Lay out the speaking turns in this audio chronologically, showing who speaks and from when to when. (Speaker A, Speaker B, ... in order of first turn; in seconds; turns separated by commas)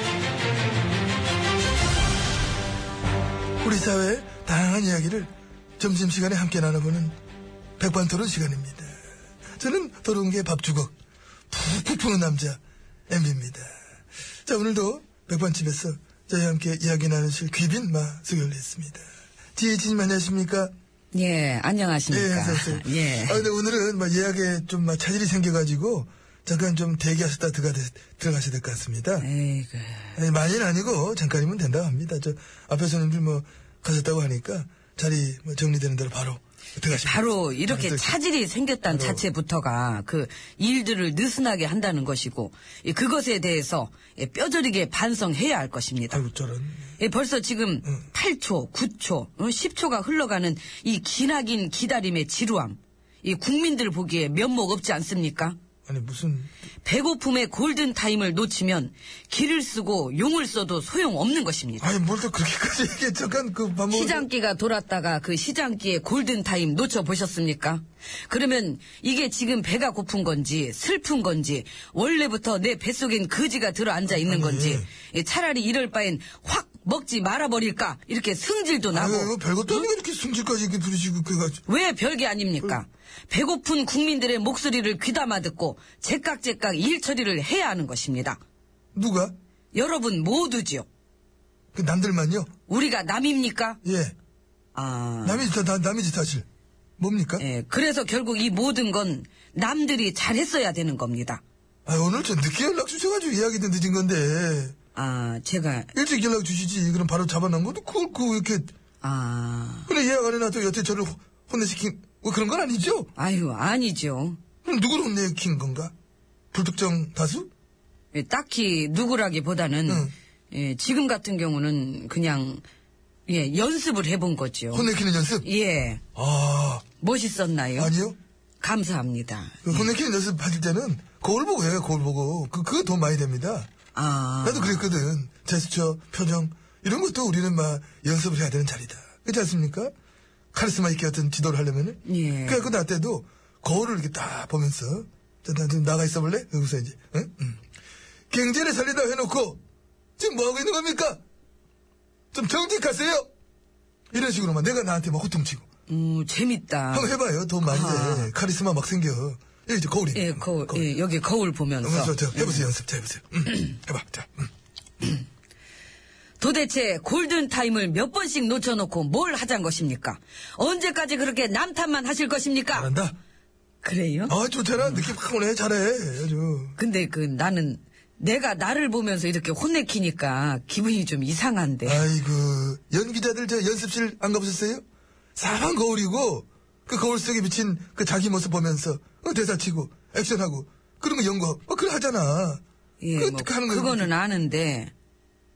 Speaker A: 3.6-7.1, Speaker A: 7.8-8.9, Speaker A: 9.6-10.9, Speaker A: 11.5-13.7, Speaker A: 14.4-19.0, Speaker A: 19.5-20.7, Speaker B: 21.1-23.5, Speaker A: 22.1-29.3, Speaker B: 29.2-30.2, Speaker A: 30.1-38.2, Speaker B: 36.9-46.2, Speaker A: 38.9-39.2, Speaker A: 46.1-46.9, Speaker B: 47.0-55.6, Speaker A: 55.9-56.5, Speaker B: 56.8-61.9, Speaker A: 61.8-64.3, Speaker B: 63.9-79.9, Speaker A: 74.1-74.9, Speaker A: 78.9-81.6, Speaker B: 81.7-88.4, Speaker A: 89.0-89.3, Speaker B: 89.7-90.9, Speaker A: 91.7-92.5, Speaker B: 92.7-93.8, Speaker A: 93.8-94.2, Speaker B: 94.8-95.5, Speaker A: 95.2-96.5, Speaker A: 97.0-97.4, Speaker B: 97.4-101.4, Speaker A: 101.9-104.8, Speaker B: 105.0-105.9, Speaker A: 105.9-108.7, Speaker B: 109.0-109.9, Speaker A: 109.9-113.1, Speaker B: 113.2-114.4, Speaker A: 114.6-115.9, Speaker A: 116.5-117.5, Speaker B: 118.1-122.7, Speaker A: 119.9-120.1, Speaker B: 123.3-124.9, Speaker A: 124.7-125.5, Speaker B: 125.4-126.0, Speaker A: 126.2-126.8, Speaker B: 127.0-127.9, Speaker A: 127.8-128.2, Speaker B: 128.6-129.9, Speaker A: 129.6-133.7, Speaker B: 133.9-134.9, Speaker A: 134.4-139.9, Speaker A: 140.5-147.6, Speaker B: 142.1-142.7, Speaker A: 148.3-149.6, Speaker A: 150.2-151.2, Speaker A: 152.3-153.3, Speaker A: 154.1-155.7, Speaker B: 155.9-158.3, Speaker A: 156.9-160.9, Speaker B: 160.1-162.7, Speaker A: 161.8-164.5, Speaker B: 166.4-172.9, Speaker A: 172.7-173.2, Speaker B: 173.8-175.1, Speaker A: 174.3-176.8, Speaker B: 176.8-182.1, Speaker A: 181.8-184.8, Speaker A: 185.3-192.6, Speaker B: 193.0-194.9, Speaker A: 193.2-194.1